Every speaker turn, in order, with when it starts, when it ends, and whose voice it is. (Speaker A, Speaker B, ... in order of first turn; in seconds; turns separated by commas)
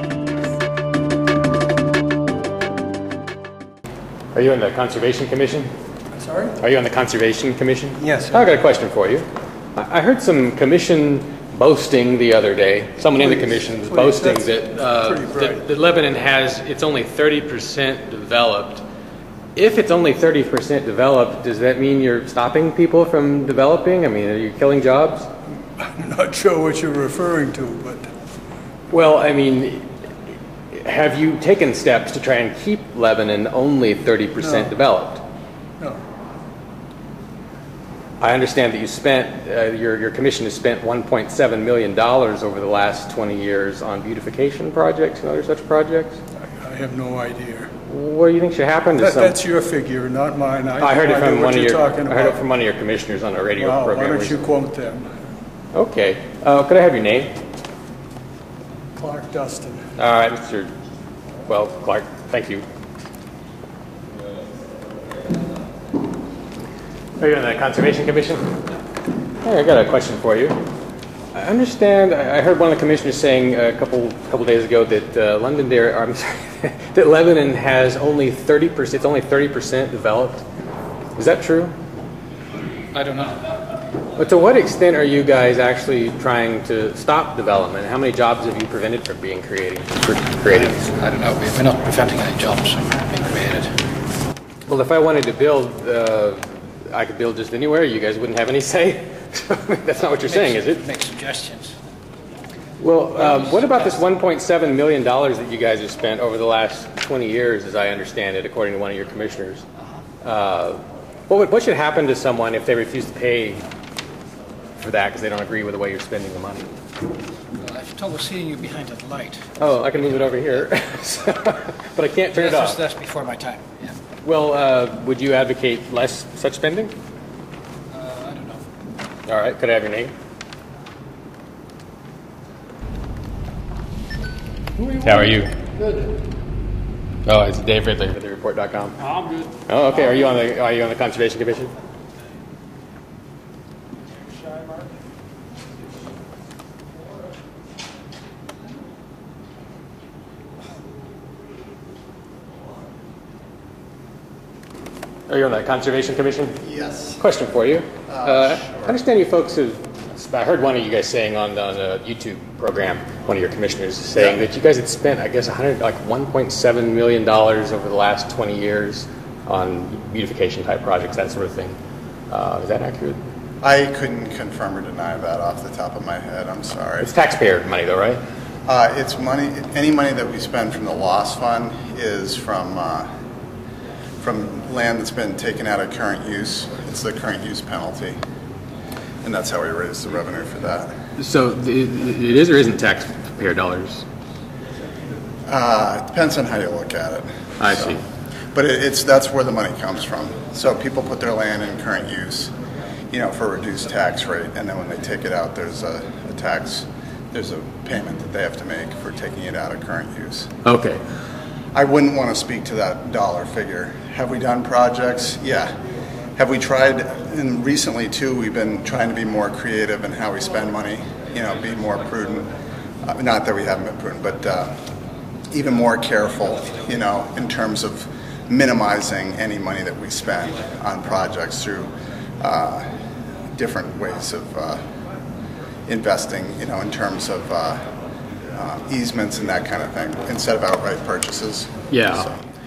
Speaker A: 4.3-5.7, Speaker B: 6.2-6.5, Speaker A: 6.6-18.8, Speaker B: 8.0-8.4, Speaker B: 13.1-15.6, Speaker A: 19.6-25.3, Speaker B: 25.8-28.1, Speaker A: 28.9-29.9, Speaker A: 30.7-35.2, Speaker B: 34.4-34.7, Speaker A: 38.2-46.2, Speaker B: 46.6-47.7, Speaker A: 47.9-49.4, Speaker B: 49.0-52.4, Speaker A: 50.8-54.4, Speaker B: 53.6-55.1, Speaker A: 55.7-57.3, Speaker B: 59.0-59.8, Speaker A: 60.0-60.7, Speaker A: 61.5-62.6, Speaker A: 67.2-68.6, Speaker A: 69.4-70.6, Speaker A: 71.3-80.4, Speaker A: 81.2-81.7, Speaker C: 82.9-83.4, Speaker A: 84.2-90.9, Speaker C: 90.8-93.7, Speaker A: 94.7-100.8, Speaker C: 100.2-101.7, Speaker A: 102.8-109.6, Speaker C: 103.2-103.8, Speaker A: 110.2-113.6, Speaker A: 114.8-116.7, Speaker C: 117.6-119.5, Speaker A: 119.6-122.8, Speaker C: 122.3-124.0, Speaker A: 124.2-126.9, Speaker C: 127.9-128.7, Speaker A: 129.3-130.1, Speaker A: 134.9-135.6, Speaker A: 137.2-139.0, Speaker A: 139.7-141.7, Speaker A: 155.3-156.6, Speaker D: 156.6-157.2, Speaker A: 157.2-171.8, Speaker D: 158.1-159.0, Speaker D: 164.2-164.4, Speaker A: 172.3-173.2, Speaker D: 173.6-177.1, Speaker A: 177.0-178.2, Speaker D: 178.7-183.1, Speaker D: 184.2-188.2, Speaker D: 189.2-190.9, Speaker A: 191.2-194.0, Speaker D: 195.4-198.0, Speaker A: 197.6-198.0, Speaker D: 198.5-202.5, Speaker D: 203.1-210.5, Speaker A: 210.6-211.0, Speaker D: 211.7-215.7, Speaker D: 216.3-222.5, Speaker D: 223.0-224.8, Speaker D: 225.5-232.9, Speaker D: 233.5-234.8, Speaker D: 235.9-237.9, Speaker D: 238.5-242.4, Speaker A: 241.9-242.3